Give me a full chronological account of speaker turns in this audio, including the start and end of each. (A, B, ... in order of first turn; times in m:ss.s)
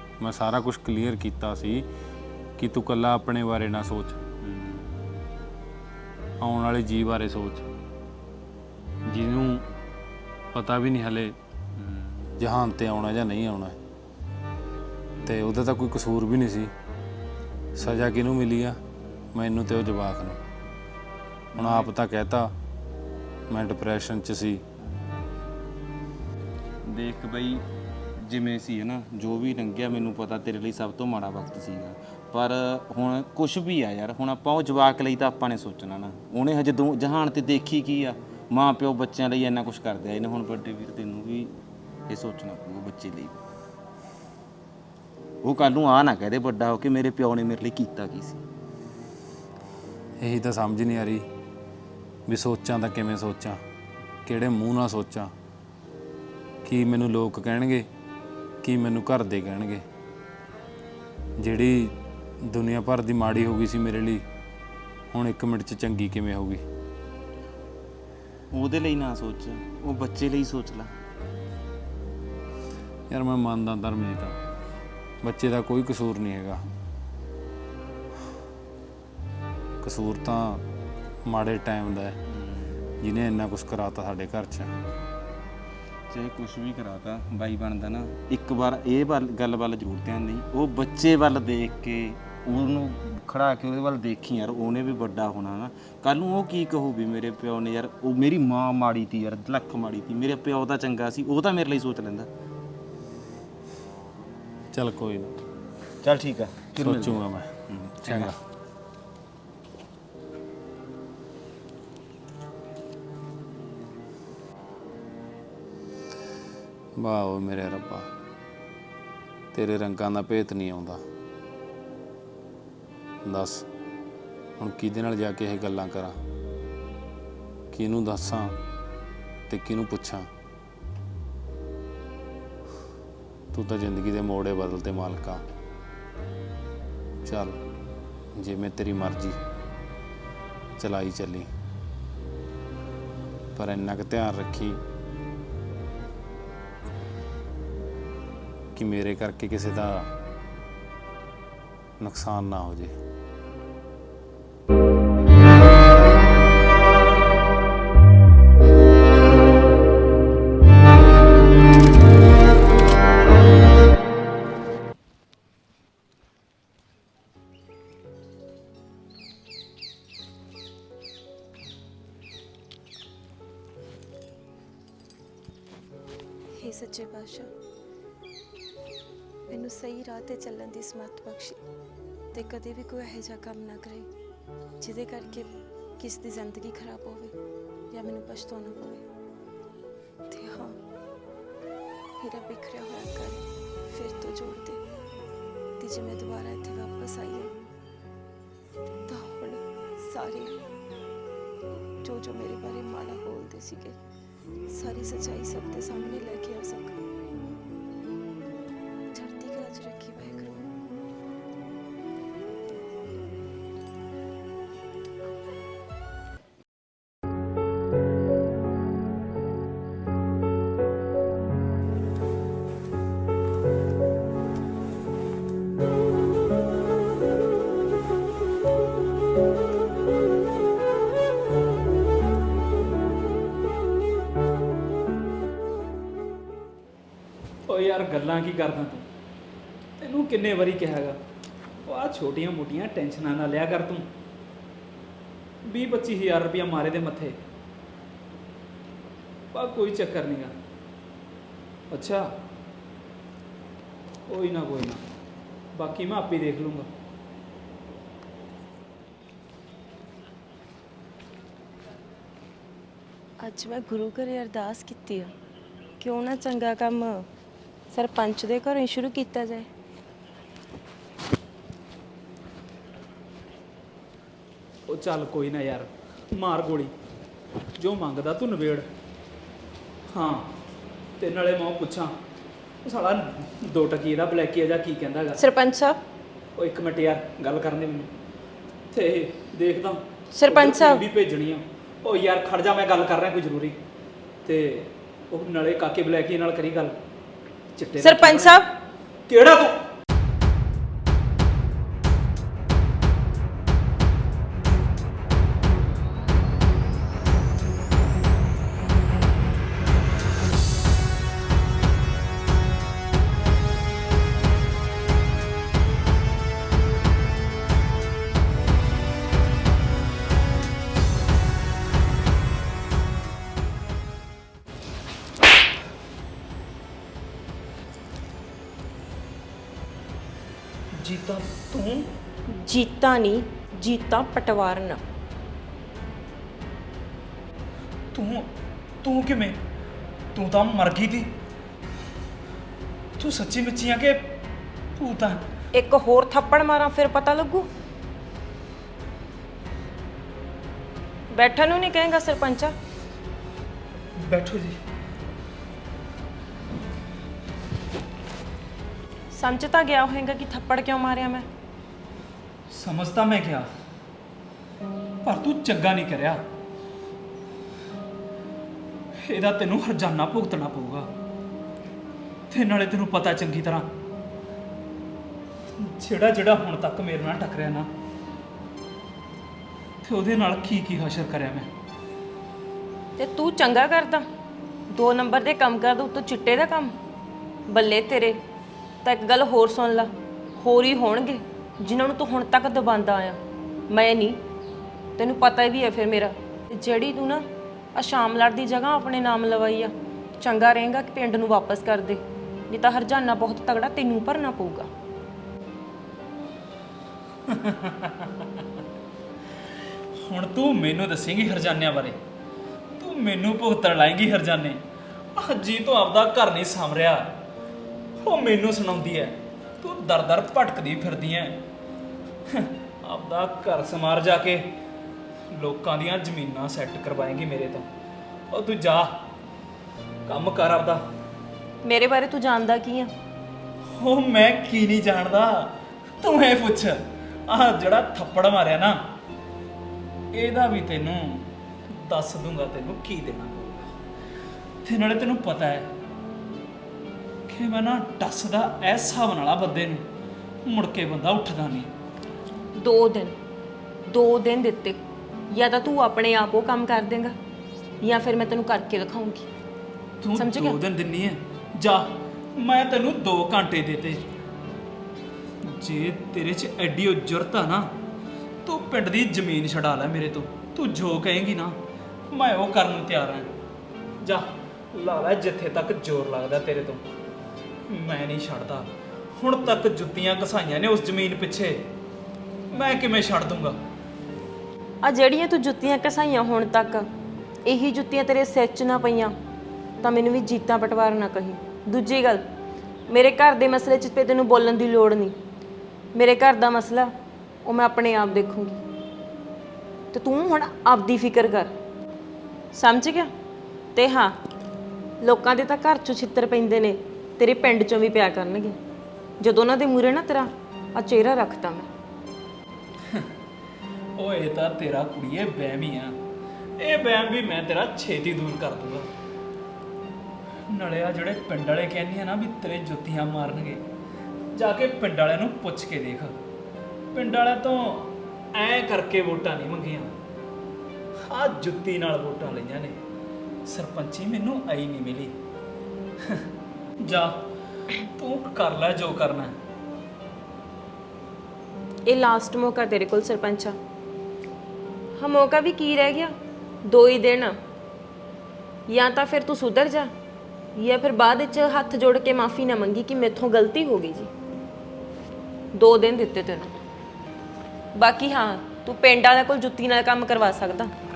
0:00.2-0:01.8 A
0:02.6-0:04.2 A
0:04.4-0:05.1 B
0:06.4-0:07.7 A
0:09.0-0:09.6 A
0:10.5-0:11.4 A
0:11.8-0:12.3 B
0:12.4-0:13.8 A
0:15.2-0:16.7 A
0:17.8-0:18.8 A
0:19.3-0:20.4 A
0:21.5-0:21.9 B
0:21.6-0:22.5 A
0:23.5-0:24.6 A
0:26.8-0:27.6 B
0:28.2-0:41.5 B
0:42.1-0:43.4 B
0:45.4-0:48.4 B
0:50.2-0:51.2 A
0:52.3-0:53.6 A
0:54.2-0:55.3 A
0:56.6-0:57.8 A
0:58.6-0:59.8 A
1:01.4-1:04.2 A
1:05.1-1:06.6 A
1:08.5-1:10.9 B
1:13.1-1:14.4 A
1:15.2-1:16.6 A
1:19.8-1:20.6 A
1:21.2-1:22.2 A
1:22.3-1:22.8 B
1:23.0-1:24.7 A
1:26.1-1:42.3 B
1:44.7-1:45.4 A
1:46.0-1:48.3 B
1:46.8-1:48.4 A
1:57.0-1:58.1 A
1:59.5-2:01.0 A
2:03.2-2:03.6 A
2:04.6-2:06.2 A
2:07.7-2:08.5 A
2:09.5-2:10.3 A
2:13.5-2:15.4 A
2:17.2-2:17.6 A
2:18.3-2:19.4 A
2:20.8-2:21.5 A
2:23.5-2:24.8 A
2:28.7-2:30.1 A
2:32.0-2:32.9 A
2:56.5-2:57.5 C
2:59.5-3:01.6 C
3:02.3-3:04.1 C
3:04.8-3:07.4 C
3:07.9-3:09.0 C
3:10.3-3:10.8 C
3:12.2-3:14.8 C
3:15.8-3:17.5 C
3:19.1-3:20.6 C
3:22.0-3:24.0 C
3:24.7-3:27.0 C
3:29.1-3:30.7 C
3:57.7-3:59.1 D
4:00.0-4:01.2 D
4:01.8-4:04.1 D
4:05.6-4:07.4 D
4:09.5-4:10.5 D
4:11.9-4:12.3 D
4:14.3-4:15.0 D
4:15.7-4:16.9 D
4:23.4-4:25.3 C
4:26.0-4:27.2 C
4:27.9-4:29.7 C
4:34.9-4:36.9 D
4:37.7-4:38.9 D
4:40.1-4:40.5 D
4:41.2-4:42.2 D
4:42.8-4:45.4 D
4:45.4-4:46.0 C
4:46.6-4:48.1 D
4:48.9-4:53.8 D
4:50.3-4:51.0 C
4:54.4-4:57.0 D
4:57.8-4:58.6 D
4:58.0-4:58.7 C
4:59.3-4:59.9 D
5:31.0-5:32.1 D
5:32.5-5:35.0 C
5:38.1-5:38.5 D
5:39.0-5:39.6 D
5:40.3-5:41.3 D
5:43.2-5:44.4 D
5:45.0-5:45.4 D
5:45.7-5:47.7 C
5:51.3-5:52.7 C
5:54.2-5:54.8 D
5:59.3-6:01.5 C
6:02.7-6:03.7 D
6:05.2-6:06.4 D
6:09.2-6:11.1 D
6:12.5-6:13.9 D
6:15.8-6:17.9 D
6:20.0-6:21.7 D
6:23.2-6:24.2 C
6:24.9-6:26.9 C
6:27.7-6:28.4 C
6:29.0-6:33.4 C
6:33.9-6:34.4 C
6:35.2-6:44.9 C
6:47.4-6:48.6 D
6:50.2-6:52.2 D
6:53.0-6:54.8 D
6:55.3-6:57.4 D
6:58.2-7:01.6 D
7:02.5-7:04.8 D
7:05.5-7:07.9 D
7:08.5-7:09.3 D
7:10.2-7:11.0 D
7:11.8-7:13.1 C
7:13.9-7:19.1 D
7:20.3-7:23.9 D
7:24.8-7:25.9 D
7:27.5-7:30.1 D
7:30.6-7:31.9 D
7:32.7-7:33.4 C
7:34.1-7:37.4 C
7:38.0-7:39.5 C
7:40.2-7:44.2 D
7:40.4-7:40.8 C
7:45.6-7:47.9 D
7:48.6-7:51.8 D
7:52.3-7:53.5 D
7:54.2-7:57.0 D
7:57.9-8:01.9 D
8:02.7-8:03.8 D
8:05.0-8:07.1 C
8:07.6-8:09.3 C
8:10.0-8:12.4 C
8:13.1-8:15.4 C
8:16.1-8:17.1 C
8:17.6-8:18.8 C
8:20.1-8:21.7 C
8:22.7-8:23.3 C
8:23.9-8:24.4 C
8:25.2-8:28.8 C
8:29.4-8:31.9 C
8:33.0-8:33.3 D
8:34.2-8:36.2 D
8:36.8-8:39.1 D
8:40.7-8:43.8 D
8:44.5-8:46.4 D
8:47.1-8:50.1 D
8:51.2-8:53.0 D
8:53.6-8:55.4 D
8:56.2-8:56.5 D
8:57.0-8:57.4 D
8:58.0-8:59.6 D
9:02.1-9:03.8 C
9:05.2-9:07.6 C
9:08.9-9:10.1 C
9:10.7-9:14.3 C
9:15.7-9:16.7 C
9:17.9-9:20.9 C